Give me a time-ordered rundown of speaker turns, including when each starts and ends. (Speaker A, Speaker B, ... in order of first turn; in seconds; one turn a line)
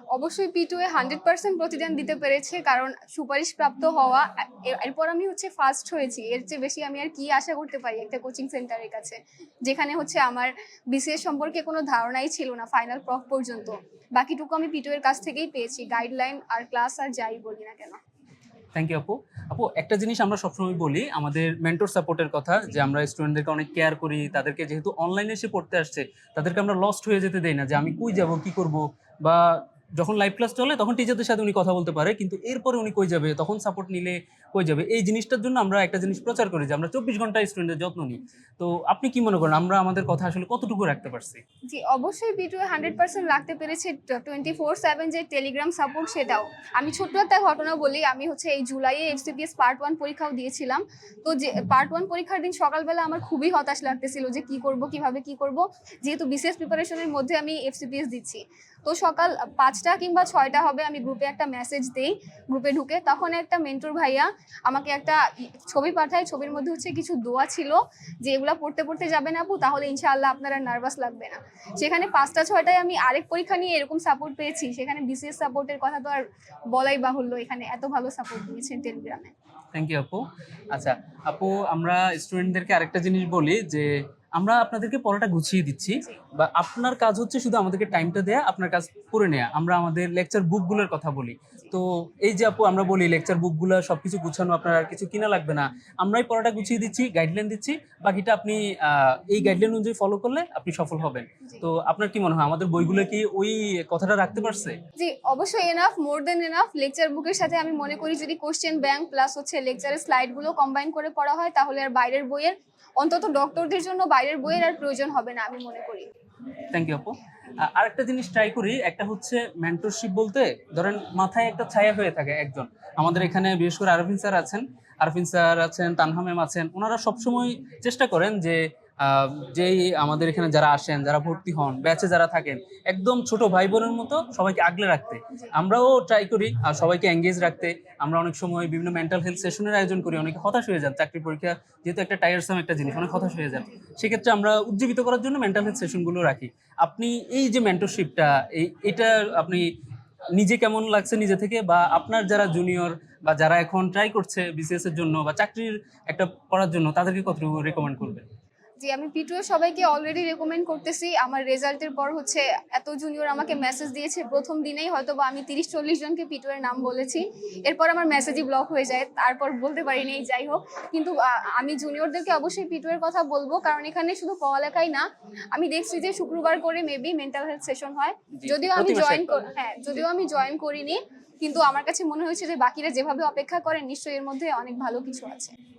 Speaker A: 0.1-18.0
Speaker B: 18.8-41.4
Speaker A: 41.7-79.3
Speaker B: 79.7-104.8
Speaker A: 105.0-116.1
Speaker B: 116.7-149.7
Speaker B: 150.3-158.2
Speaker A: 158.8-185.5
Speaker B: 178.3-179.4